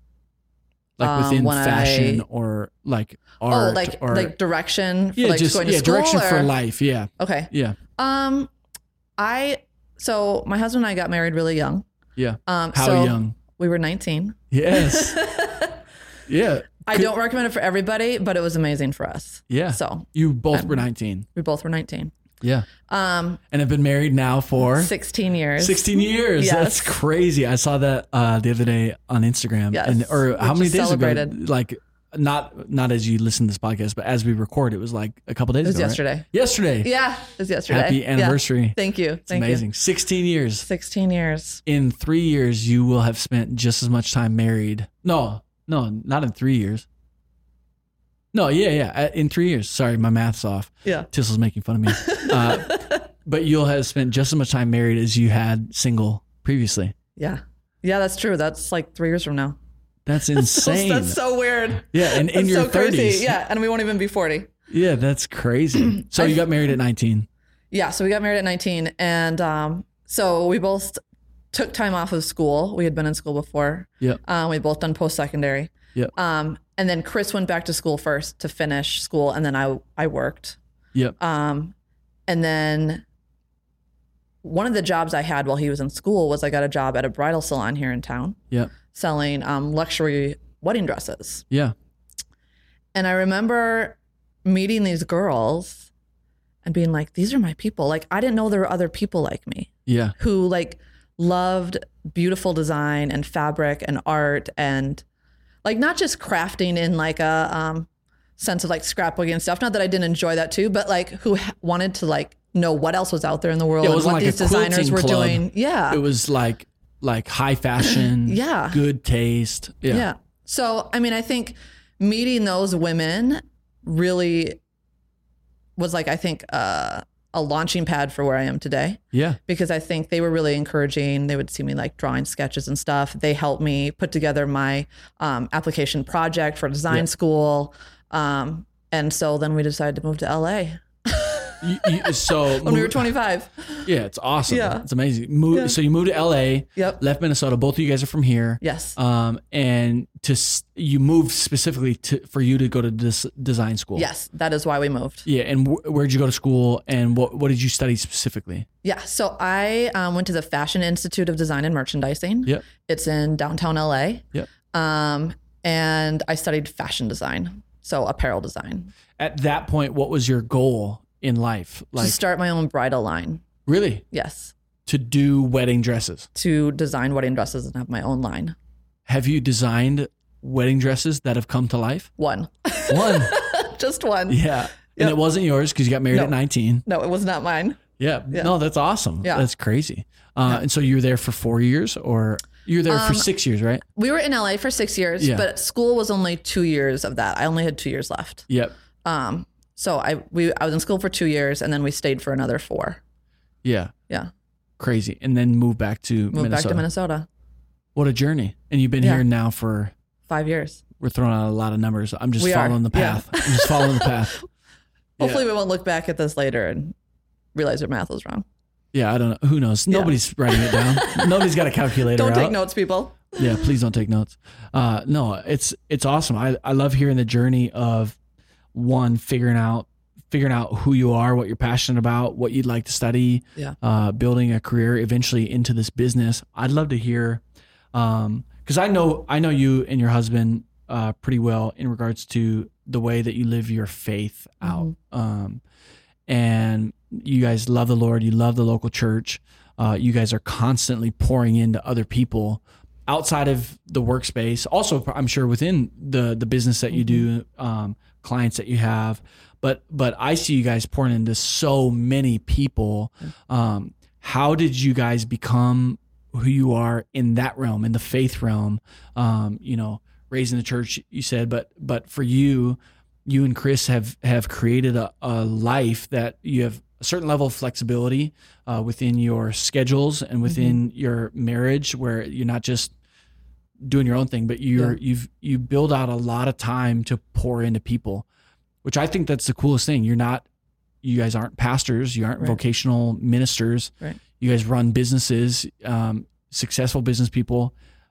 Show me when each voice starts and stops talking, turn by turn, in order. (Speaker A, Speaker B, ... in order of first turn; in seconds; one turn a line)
Speaker A: 1.0-4.3
Speaker B: 1.0-2.2
Speaker B: 3.5-6.5
Speaker A: 5.2-7.8
Speaker B: 7.2-8.5
Speaker B: 9.2-11.8
Speaker A: 12.2-13.3
Speaker B: 12.4-15.8
Speaker A: 14.5-15.2
Speaker A: 16.2-17.1
Speaker B: 16.9-20.8
Speaker A: 19.5-21.3
Speaker B: 21.3-22.1
Speaker B: 22.9-23.4
Speaker A: 23.5-24.9
Speaker B: 24.6-26.9
Speaker A: 25.6-36.9
Speaker B: 29.7-31.3
Speaker B: 35.6-36.2
Speaker B: 36.8-39.6
Speaker A: 37.7-40.6
Speaker B: 40.6-41.6
Speaker A: 41.6-46.9
Speaker A: 48.3-56.9
Speaker B: 51.9-53.1
Speaker B: 57.2-59.6
Speaker A: 60.0-61.2
Speaker B: 60.3-64.5
Speaker A: 61.8-63.4
Speaker A: 64.7-67.2
Speaker B: 65.9-66.4
Speaker B: 67.7-71.0
Speaker B: 71.5-80.6
Speaker B: 81.2-81.7
Speaker B: 82.3-83.0
Speaker B: 84.4-88.4
Speaker B: 88.9-91.4
Speaker B: 92.9-95.9
Speaker B: 96.6-105.0
Speaker A: 99.8-100.1
Speaker B: 105.6-116.0
Speaker A: 113.8-120.1
Speaker B: 117.8-118.8
Speaker B: 119.9-124.6
Speaker B: 125.8-143.9
Speaker A: 129.1-129.4
Speaker A: 141.6-143.1
Speaker A: 143.8-154.1
Speaker B: 144.5-144.8
Speaker B: 145.5-145.8
Speaker B: 148.6-148.9
Speaker B: 153.9-155.3
Speaker A: 155.2-158.7
Speaker B: 158.8-168.9
Speaker A: 169.2-172.2
Speaker B: 171.9-173.4
Speaker A: 173.7-174.0
Speaker B: 174.1-174.5
Speaker A: 174.8-176.3
Speaker B: 176.3-178.5
Speaker A: 179.1-182.1
Speaker B: 182.2-185.2
Speaker A: 182.9-183.4
Speaker A: 184.3-186.8
Speaker B: 186.1-188.5
Speaker A: 188.0-193.8
Speaker B: 192.9-193.3
Speaker B: 193.9-198.5
Speaker A: 195.2-195.5
Speaker B: 199.0-203.0
Speaker A: 203.6-203.9
Speaker A: 204.8-206.8
Speaker B: 206.3-207.3
Speaker A: 207.9-209.9
Speaker B: 210.3-210.8
Speaker A: 211.0-214.4
Speaker B: 212.4-214.4
Speaker B: 215.2-216.9
Speaker A: 215.2-215.4
Speaker B: 217.5-218.4
Speaker A: 218.9-222.6
Speaker B: 219.9-223.7
Speaker A: 223.3-228.2
Speaker A: 228.7-237.4
Speaker A: 237.9-245.6
Speaker B: 244.6-244.9
Speaker A: 246.3-282.9
Speaker B: 256.9-257.2
Speaker B: 280.4-280.8
Speaker A: 283.8-288.2
Speaker A: 288.8-290.5
Speaker A: 291.0-297.7